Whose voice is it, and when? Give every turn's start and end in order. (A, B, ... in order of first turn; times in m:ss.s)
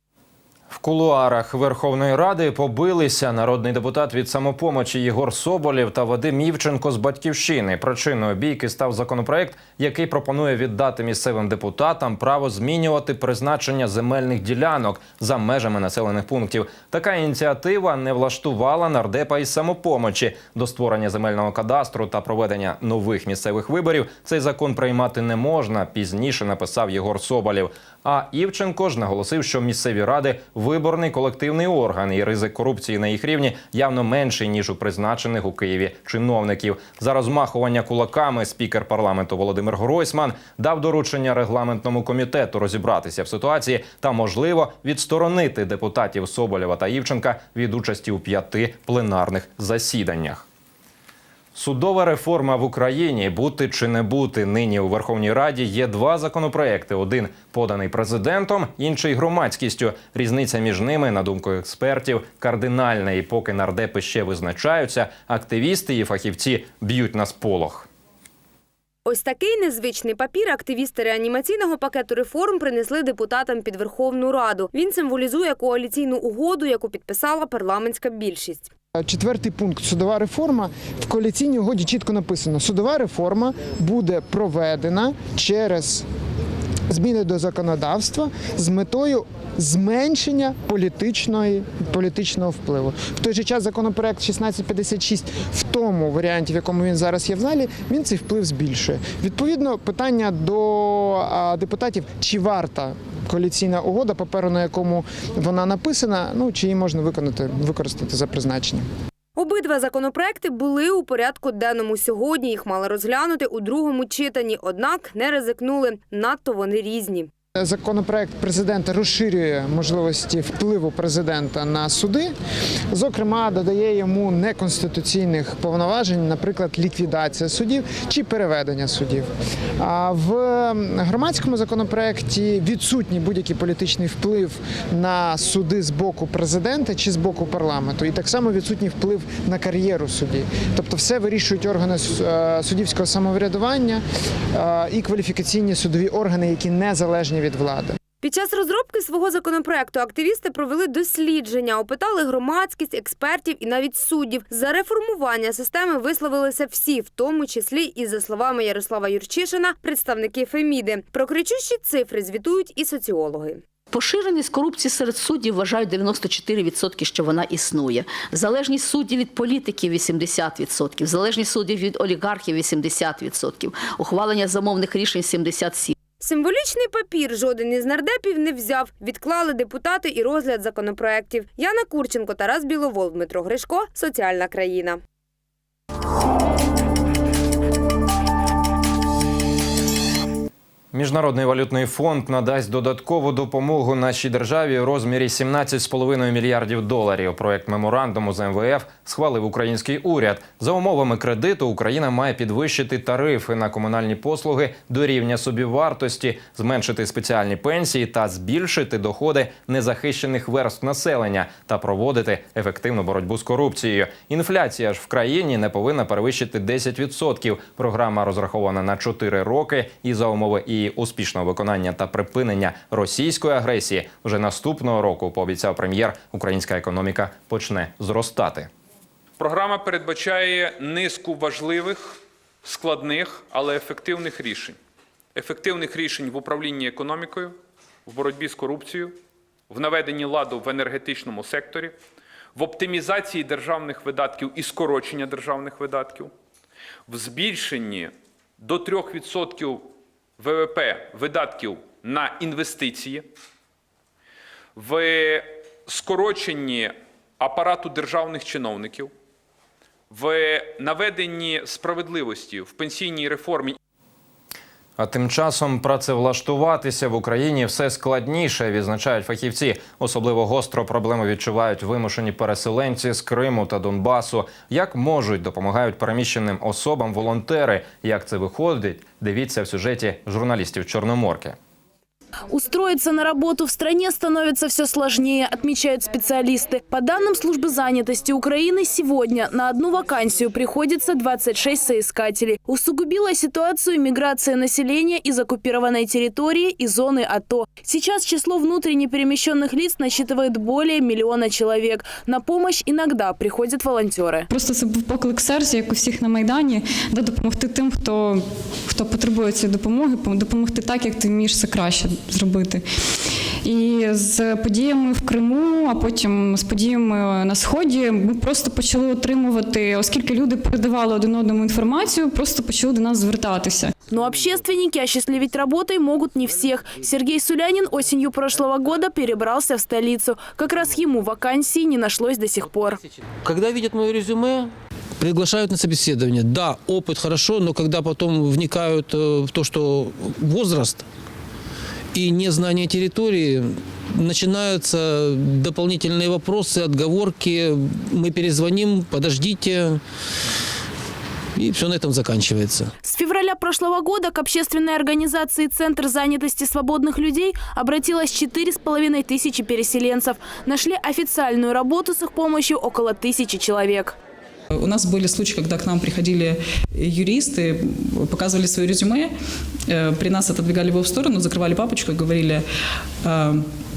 0:00.7-0:50.5 A
0:51.5-1:07.9 A
1:09.0-1:18.7 B
1:19.0-1:26.1 C
1:26.9-1:48.8 C
1:49.4-1:57.3 B
1:57.6-2:02.3 C
2:02.9-2:09.3 C
2:09.8-2:24.0 C
2:24.6-2:28.0 C
2:28.2-2:43.6 B
2:43.9-2:56.0 D
2:56.2-3:05.0 B
3:10.9-3:48.7 A
3:49.4-3:54.8 E
3:55.4-3:59.2 E
3:59.7-4:02.0 E
4:02.6-4:06.3 E
4:07.1-4:09.9 E
4:10.4-4:13.3 E
4:14.8-4:19.1 E
4:20.1-4:23.8 E
4:25.0-4:41.6 A
4:42.5-5:04.5 F
5:04.5-5:12.8 G
5:13.6-5:23.9 G
5:24.1-5:33.0 F
5:33.4-5:34.7 H
5:35.2-5:41.0 H
5:42.1-5:50.0 H
5:51.6-5:52.9 H
5:53.0-6:04.2 F
6:05.0-6:05.3 F
6:05.1-6:06.5 G
6:07.1-6:09.3 G
6:10.0-6:12.6 G
6:13.3-6:13.6 G